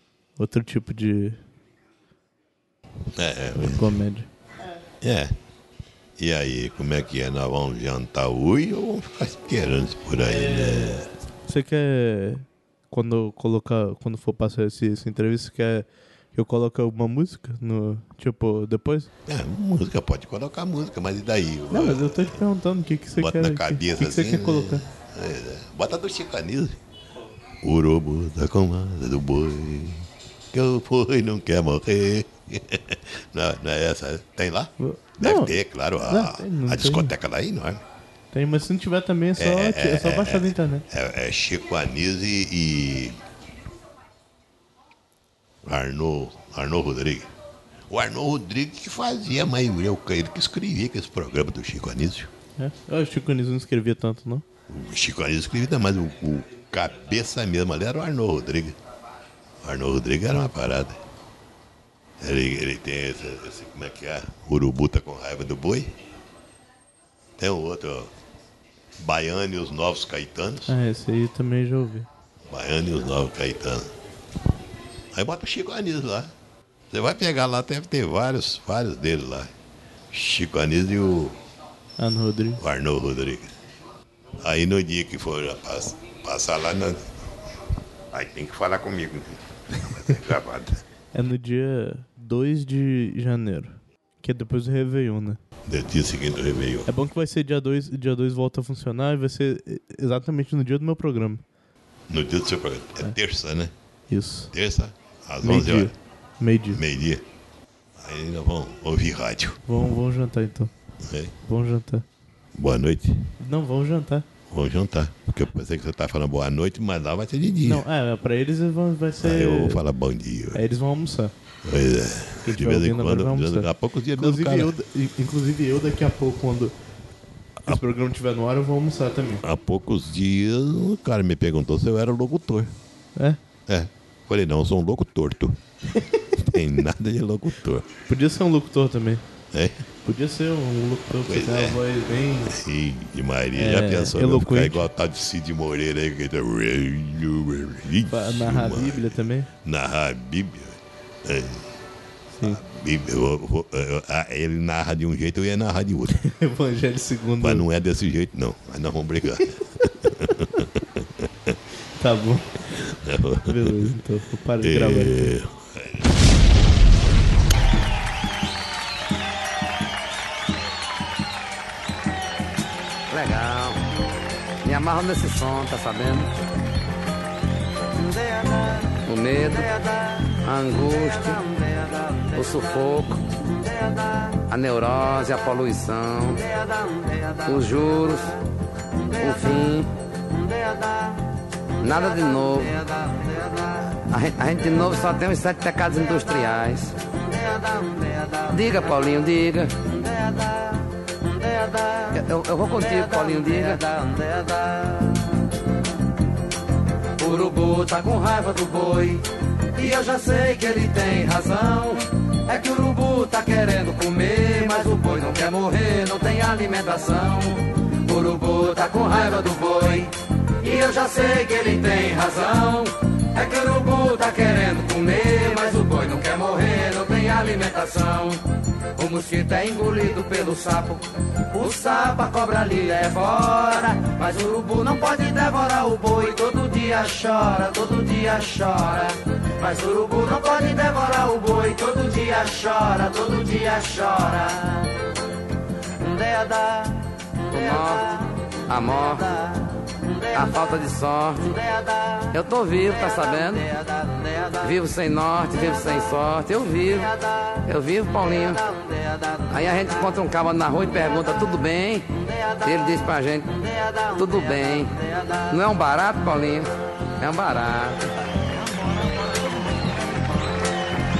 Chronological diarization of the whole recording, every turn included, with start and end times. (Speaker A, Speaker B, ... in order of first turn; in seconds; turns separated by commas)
Speaker A: 0.4-1.4, Speaker B: 3.1-3.9, Speaker A: 3.5-4.3, Speaker B: 5.0-5.3, Speaker B: 6.2-11.1, Speaker A: 10.2-19.1, Speaker B: 19.3-22.4, Speaker A: 21.7-24.8, Speaker B: 23.2-26.8, Speaker B: 27.6-37.8, Speaker A: 34.8-37.1, Speaker A: 38.3-40.8, Speaker B: 39.4-43.2, Speaker B: 45.6-47.3, Speaker B: 47.9-52.3, Speaker A: 52.6-54.4, Speaker B: 54.7-58.8, Speaker B: 59.6-61.0, Speaker B: 62.2-65.9, Speaker B: 67.4-68.1, Speaker B: 69.0-70.7, Speaker A: 70.7-72.1, Speaker B: 72.5-73.9, Speaker B: 75.1-76.3, Speaker B: 76.9-79.5, Speaker B: 80.1-81.4, Speaker A: 82.0-82.6, Speaker B: 82.6-83.5, Speaker B: 84.4-87.4, Speaker B: 88.1-90.8, Speaker A: 91.1-95.4, Speaker B: 95.7-96.9, Speaker A: 96.9-101.4, Speaker B: 102.1-103.7, Speaker A: 104.1-104.5, Speaker B: 104.5-105.9, Speaker A: 105.4-106.8, Speaker B: 106.7-107.2, Speaker B: 108.0-109.6, Speaker A: 109.7-110.7, Speaker B: 111.0-111.3, Speaker A: 111.4-112.0, Speaker B: 112.5-113.3, Speaker A: 113.4-114.3, Speaker B: 114.5-117.8, Speaker A: 117.6-119.8, Speaker B: 119.2-120.6, Speaker A: 120.5-121.3, Speaker B: 121.6-124.8, Speaker A: 122.4-126.7, Speaker B: 127.6-127.9, Speaker A: 127.7-129.4, Speaker B: 129.4-132.7, Speaker B: 133.7-135.6, Speaker B: 136.3-137.9, Speaker A: 138.1-139.3, Speaker B: 139.5-139.8, Speaker A: 140.0-142.6, Speaker B: 141.2-141.8, Speaker B: 142.5-151.7, Speaker A: 143.5-144.9, Speaker A: 148.1-149.5, Speaker B: 152.4-156.2, Speaker A: 156.2-157.7, Speaker B: 157.4-161.6, Speaker A: 162.0-162.6, Speaker B: 162.7-163.8, Speaker A: 163.4-165.3, Speaker B: 164.6-166.1, Speaker C: 173.1-173.8, Speaker C: 174.6-176.4, Speaker C: 179.0-179.9, Speaker C: 180.4-181.5, Speaker C: 182.3-183.2, Speaker C: 184.5-186.4, Speaker C: 187.4-188.4, Speaker C: 189.2-189.9, Speaker C: 191.8-193.0, Speaker C: 194.0-197.0, Speaker C: 198.5-200.0, Speaker C: 202.1-204.2, Speaker C: 207.2-209.2, Speaker C: 209.8-228.4, Speaker C: 229.0-244.8, Speaker C: 247.5-249.5, Speaker C: 250.3-251.6, Speaker C: 252.3-253.7, Speaker C: 254.6-257.1, Speaker C: 257.6-258.6, Speaker C: 259.5-266.7, Speaker C: 267.2-268.1